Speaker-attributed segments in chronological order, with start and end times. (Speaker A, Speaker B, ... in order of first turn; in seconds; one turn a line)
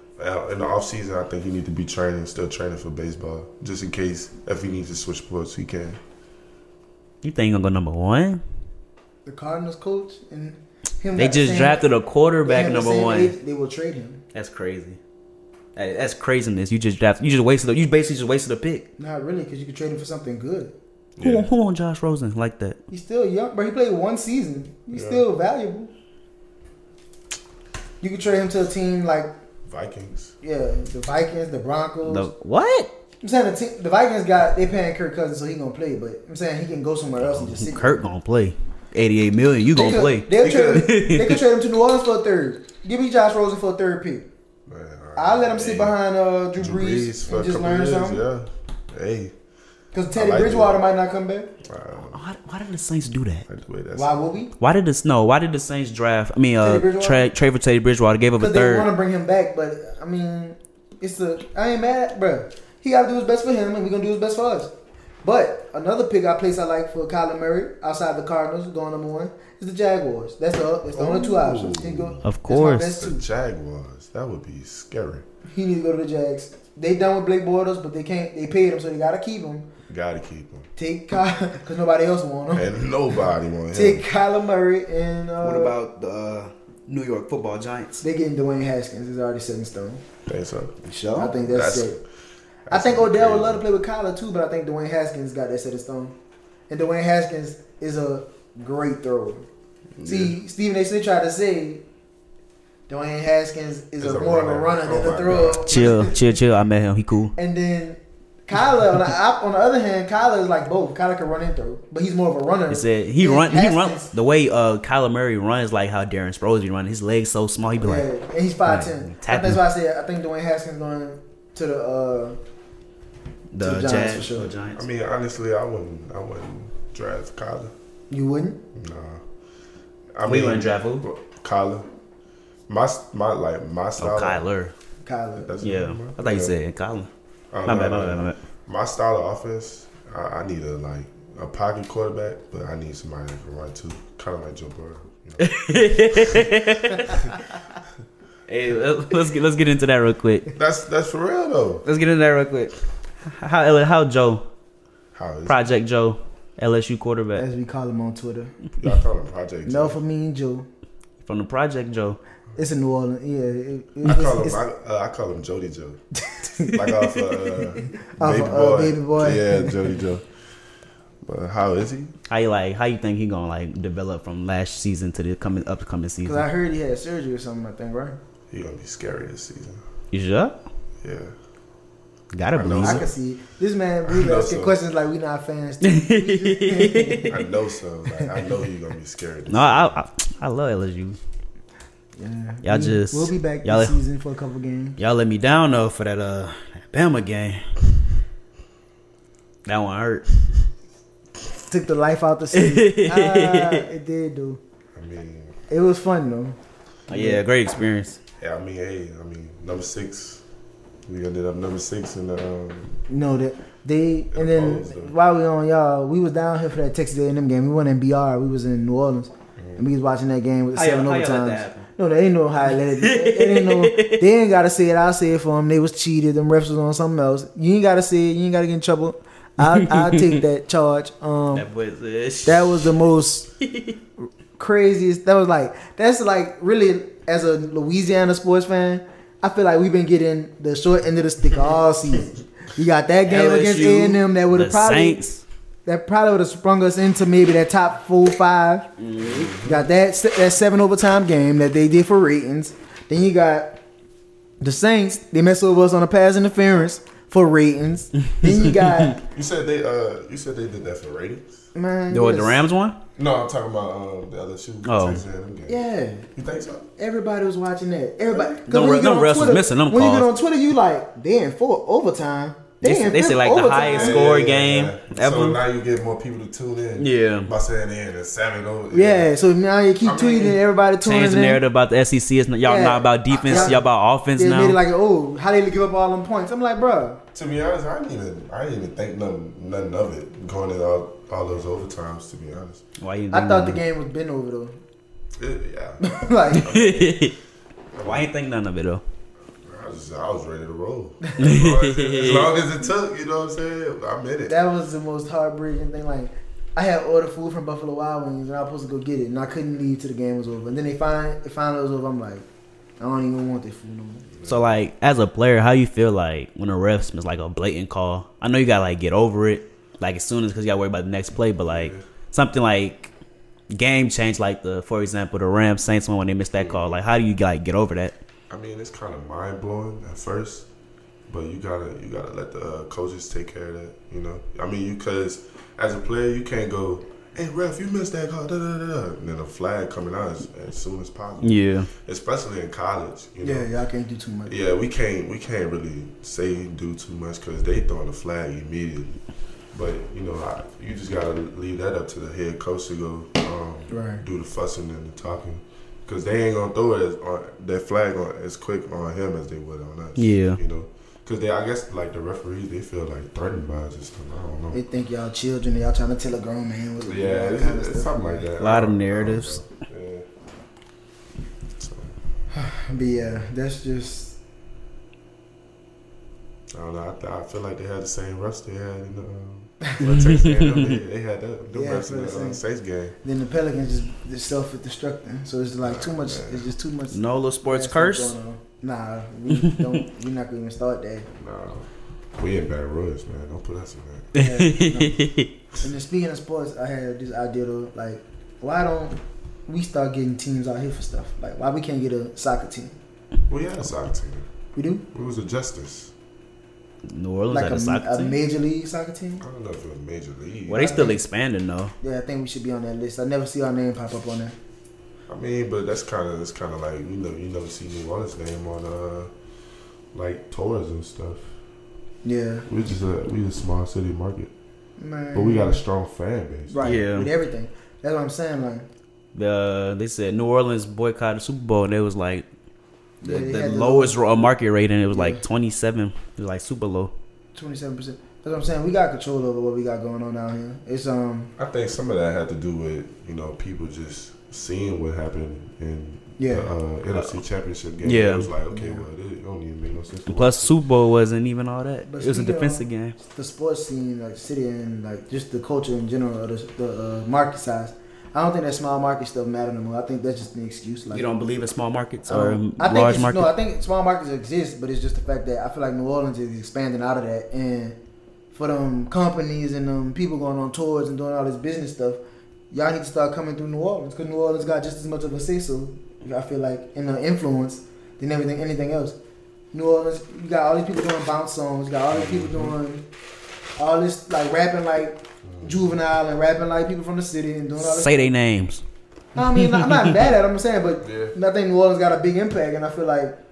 Speaker A: 0.2-6.0
Speaker B: 7.2-8.4
Speaker C: 9.2-11.8
Speaker B: 11.2-13.3
Speaker C: 12.4-14.2
Speaker B: 14.3-15.0
Speaker B: 15.8-18.9
Speaker C: 19.0-20.8
Speaker A: 21.2-21.5
Speaker B: 21.2-22.8
Speaker C: 22.9-25.9
Speaker A: 24.9-25.2
Speaker C: 28.0-29.3
Speaker A: 29.7-30.4
Speaker C: 30.4-32.3
Speaker B: 32.0-32.9
Speaker C: 33.2-38.0
Speaker B: 37.2-41.4
Speaker C: 39.7-44.3
Speaker A: 40.4-40.9
Speaker A: 44.7-46.0
Speaker C: 45.2-48.2
Speaker A: 46.6-49.4
Speaker C: 49.9-51.5
Speaker A: 50.1-50.8
Speaker A: 51.6-52.2
Speaker B: 52.1-53.5
Speaker A: 53.5-54.3
Speaker C: 53.9-54.5
Speaker B: 54.6-58.9
Speaker C: 56.6-57.3
Speaker C: 58.4-64.7
Speaker C: 65.2-73.2
Speaker A: 70.9-72.2
Speaker B: 72.2-73.0
Speaker A: 73.0-75.3
Speaker C: 75.5-79.7
Speaker A: 79.9-80.7
Speaker C: 80.8-82.7
Speaker A: 82.5-84.0
Speaker C: 83.7-85.8
Speaker B: 85.4-88.0
Speaker C: 88.0-90.0
Speaker A: 90.3-90.8
Speaker B: 90.8-91.3
Speaker C: 91.2-92.0
Speaker A: 91.3-92.0
Speaker A: 92.7-93.6
Speaker C: 92.7-96.2
Speaker C: 96.7-99.5
Speaker A: 100.0-100.4
Speaker C: 100.0-101.8
Speaker C: 102.9-106.3
Speaker A: 104.0-105.9
Speaker B: 105.7-107.3
Speaker C: 107.4-114.1
Speaker B: 112.7-118.1
Speaker C: 117.8-122.4
Speaker B: 118.7-119.6
Speaker B: 123.5-124.8
Speaker C: 123.6-124.5
Speaker A: 124.7-127.7
Speaker C: 128.1-128.6
Speaker A: 128.7-129.2
Speaker A: 130.1-131.9
Speaker B: 130.2-131.0
Speaker A: 132.7-134.4
Speaker B: 134.0-134.7
Speaker C: 135.1-135.5
Speaker A: 135.4-136.6
Speaker B: 135.6-137.1
Speaker A: 137.5-146.6
Speaker B: 137.7-138.4
Speaker B: 145.4-147.5
Speaker B: 148.5-150.5
Speaker A: 150.5-151.8
Speaker B: 151.8-154.4
Speaker A: 155.1-155.7
Speaker B: 155.5-157.5
Speaker C: 157.4-158.5
Speaker A: 158.8-160.0
Speaker C: 159.7-160.7
Speaker B: 161.2-162.2
Speaker C: 162.6-164.6
Speaker A: 164.0-166.0
Speaker C: 166.3-166.8
Speaker A: 166.6-170.3
Speaker C: 168.0-169.9
Speaker A: 171.2-172.1
Speaker B: 172.3-176.5
Speaker C: 176.2-178.2
Speaker A: 178.5-179.8
Speaker B: 180.1-180.6
Speaker A: 181.0-181.3
Speaker B: 182.3-183.0
Speaker A: 182.5-183.1
Speaker C: 182.8-187.3
Speaker A: 184.1-184.8
Speaker B: 185.8-187.4
Speaker A: 187.3-190.0
Speaker B: 189.5-191.2
Speaker C: 192.2-195.0
Speaker B: 192.6-194.0
Speaker B: 195.0-197.7
Speaker B: 199.7-200.3
Speaker C: 201.7-204.6
Speaker B: 202.5-203.9
Speaker A: 204.9-205.6
Speaker C: 205.7-206.6
Speaker B: 207.1-208.2
Speaker C: 207.1-207.4
Speaker A: 208.4-210.4
Speaker A: 211.1-213.0
Speaker C: 213.1-231.7
Speaker A: 214.3-215.1
Speaker B: 220.8-221.9
Speaker B: 223.0-224.3
Speaker B: 229.7-230.4
Speaker B: 231.5-233.0
Speaker C: 232.5-233.5
Speaker B: 233.6-234.0
Speaker C: 234.6-245.2
Speaker B: 243.3-245.4
Speaker C: 245.9-248.9
Speaker B: 249.0-249.6
Speaker A: 249.2-249.8
Speaker C: 249.6-253.8
Speaker C: 254.6-259.2
Speaker B: 258.3-259.1
Speaker A: 259.2-261.6
Speaker C: 261.8-262.7
Speaker B: 262.1-263.0
Speaker A: 263.2-265.8
Speaker B: 264.9-265.2
Speaker C: 265.7-266.3
Speaker A: 266.4-266.9
Speaker C: 267.0-274.3
Speaker A: 268.3-268.6
Speaker B: 268.7-270.3
Speaker B: 272.8-275.6
Speaker A: 273.8-279.3
Speaker B: 277.0-277.5
Speaker C: 278.9-281.6
Speaker A: 280.0-280.6
Speaker B: 281.0-284.8
Speaker C: 282.6-283.8
Speaker A: 283.5-283.8
Speaker C: 284.4-287.2
Speaker A: 287.3-292.8
Speaker B: 293.0-293.8
Speaker C: 293.3-294.8
Speaker A: 295.4-297.3
Speaker C: 296.0-296.7
Speaker B: 296.6-297.4
Speaker A: 297.9-298.3
Speaker B: 298.0-299.0
Speaker A: 299.6-304.5
Speaker B: 301.4-302.5
Speaker C: 304.5-312.4
Speaker C: 313.0-314.2
Speaker A: 314.3-314.8
Speaker B: 314.4-323.1
Speaker A: 321.6-322.0
Speaker B: 323.7-328.2
Speaker A: 326.6-327.0
Speaker A: 328.5-330.7
Speaker A: 331.3-343.7
Speaker B: 341.4-341.9
Speaker C: 343.4-344.6
Speaker A: 344.5-349.2
Speaker A: 349.7-364.8
Speaker C: 353.9-354.2
Speaker B: 360.2-360.6
Speaker C: 364.7-368.5
Speaker A: 367.1-370.3
Speaker B: 368.6-369.6
Speaker A: 371.8-372.1
Speaker C: 372.5-374.4
Speaker A: 376.7-383.2
Speaker B: 380.1-381.0
Speaker C: 381.7-382.6
Speaker C: 383.2-391.3
Speaker A: 385.8-386.7
Speaker B: 387.1-388.4
Speaker B: 389.5-389.9
Speaker A: 391.4-394.3
Speaker C: 394.3-395.2
Speaker B: 394.4-395.5
Speaker C: 395.8-403.0
Speaker A: 403.5-404.5
Speaker C: 404.8-405.1
Speaker A: 405.1-406.1
Speaker B: 407.1-408.4
Speaker C: 407.5-409.4
Speaker A: 409.4-410.9
Speaker B: 410.7-411.9
Speaker C: 410.7-411.2
Speaker C: 412.0-414.6
Speaker A: 415.3-419.3
Speaker A: 420.1-421.6
Speaker C: 422.2-422.7
Speaker A: 422.7-424.5
Speaker C: 425.0-425.8
Speaker A: 425.3-427.0
Speaker C: 426.7-428.9
Speaker B: 426.8-427.3
Speaker B: 429.4-432.5
Speaker C: 433.2-434.2
Speaker B: 433.2-437.1
Speaker C: 435.1-435.4
Speaker C: 437.6-441.5
Speaker A: 441.6-450.8
Speaker C: 446.4-446.7
Speaker B: 448.0-448.5
Speaker C: 448.7-449.1
Speaker B: 450.3-453.2
Speaker C: 452.1-461.2
Speaker B: 461.1-463.5
Speaker C: 462.3-468.0
Speaker C: 468.5-472.2
Speaker C: 472.7-479.2
Speaker C: 479.7-483.0
Speaker A: 482.1-482.8
Speaker C: 483.8-488.3
Speaker A: 485.4-485.9
Speaker B: 487.8-488.8
Speaker C: 489.4-493.4
Speaker B: 489.6-490.1
Speaker A: 491.0-491.4